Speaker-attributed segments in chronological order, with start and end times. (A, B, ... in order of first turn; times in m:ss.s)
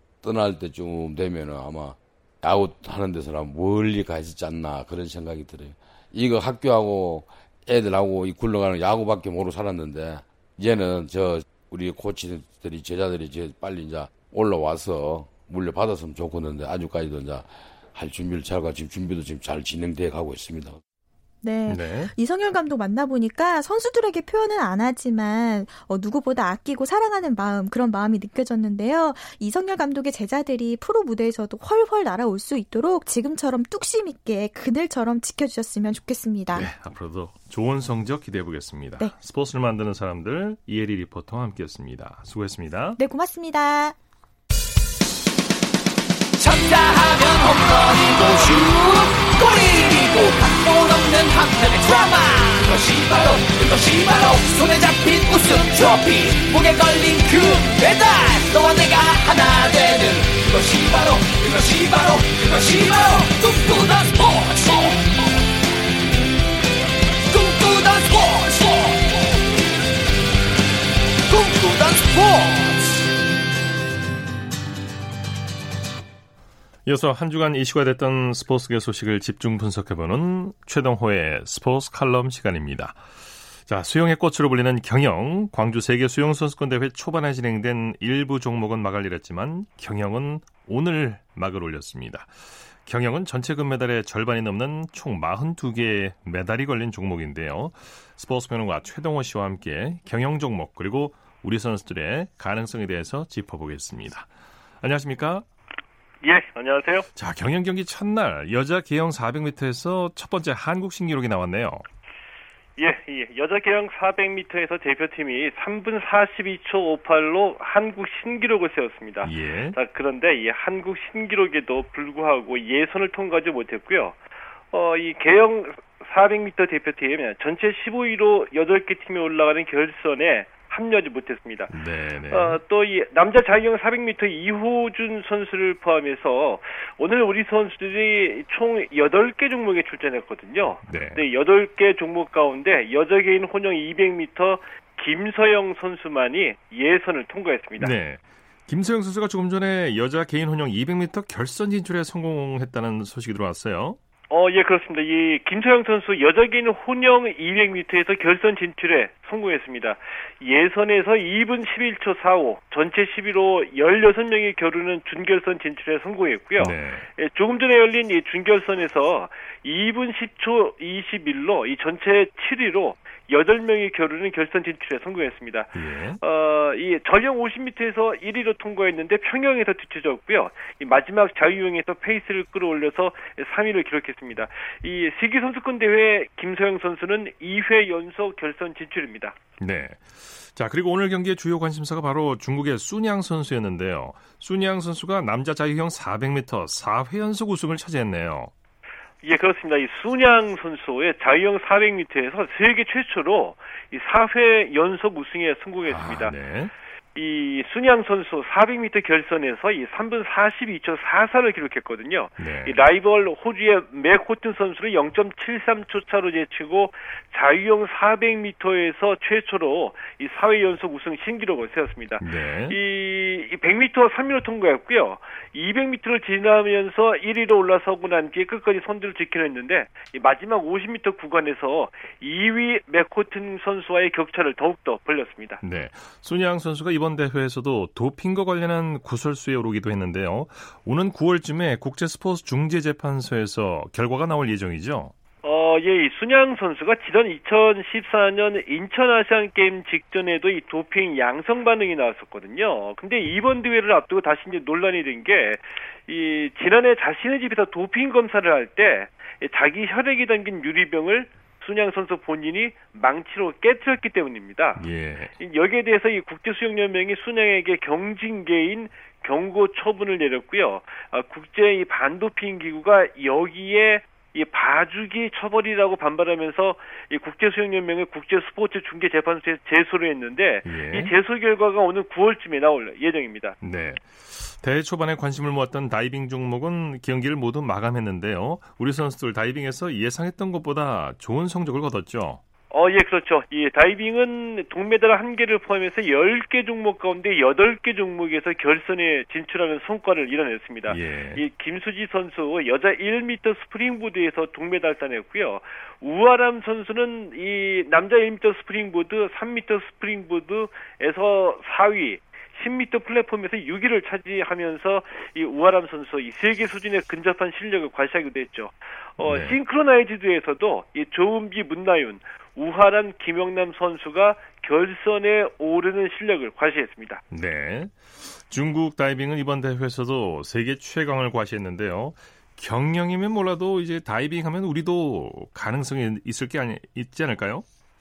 0:00.2-0:20.8 A
0:21.4-0:36.7 B
0:21.7-0:22.1 C
0:36.5-0:43.0 C
0:43.0-0:44.0 B
0:46.4-1:05.2 D
1:07.3-1:09.4 D
1:11.3-1:13.0 D
1:16.8-1:23.0 C
1:23.6-1:32.3 C
1:32.8-1:44.3 C
1:44.8-1:45.4 C
1:46.2-1:47.1 E
1:47.1-1:51.8 C
1:52.8-2:04.2 E
1:59.2-1:59.8 C
2:04.7-2:11.7 E
2:11.7-2:12.6 C
2:12.3-2:27.9 E
2:20.8-2:21.2 C
2:27.8-2:34.0 C
2:34.3-3:09.4 E
2:46.6-2:47.1 C
2:55.7-2:56.2 C
3:09.6-3:18.5 C
3:19.2-3:26.3 E
3:25.8-3:26.7 C
3:27.1-3:55.6 E
3:32.4-3:32.8 C
3:42.2-3:42.8 C
3:55.6-4:05.1 C
4:05.4-4:24.9 E
4:24.8-4:25.3 C
4:25.4-4:43.6 E
4:40.6-4:41.1 C
4:43.6-4:52.4 C
4:52.7-5:27.2 E
5:00.9-5:01.4 C
5:19.2-5:19.6 C
5:27.3-5:37.6 C